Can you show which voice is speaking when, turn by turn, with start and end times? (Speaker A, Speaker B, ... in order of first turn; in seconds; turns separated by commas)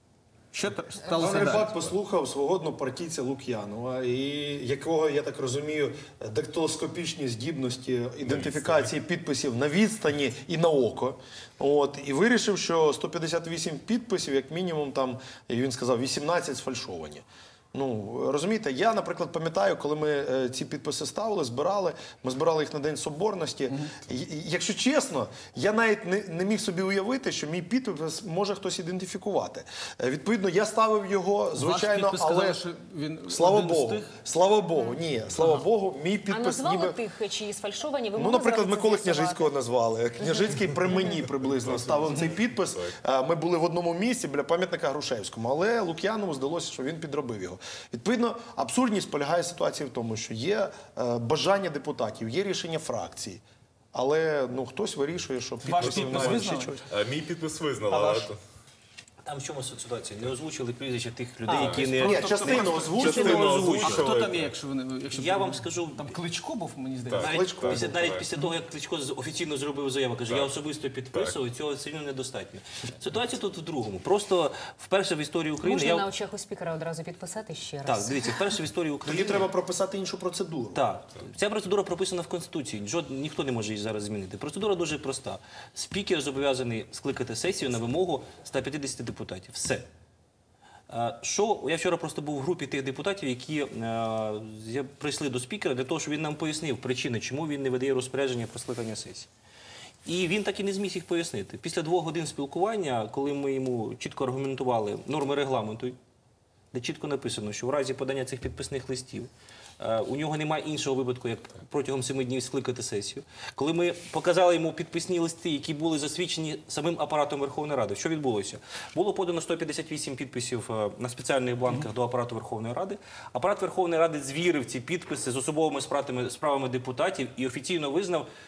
Speaker A: 0.5-1.7, Speaker B: 1.1-32.6, Speaker C: 8.2-8.9, Speaker A: 23.7-24.0, Speaker A: 31.5-34.1, Speaker B: 33.3-37.0, Speaker D: 36.3-39.5, Speaker B: 38.2-53.4, Speaker D: 40.2-41.2, Speaker C: 41.6-42.9, Speaker B: 53.9-56.8, Speaker A: 55.6-56.8, Speaker C: 55.7-58.4, Speaker A: 57.9-58.3, Speaker E: 59.2-64.1, Speaker A: 61.5-67.3, Speaker C: 61.5-64.5, Speaker B: 62.0-63.7, Speaker E: 65.1-66.2, Speaker C: 67.1-68.3, Speaker B: 67.2-68.0, Speaker E: 67.2-76.1, Speaker D: 75.6-78.3, Speaker E: 77.8-79.5, Speaker B: 79.0-80.8, Speaker E: 80.8-89.9, Speaker E: 90.9-99.3, Speaker E: 100.0-106.0, Speaker E: 106.7-128.3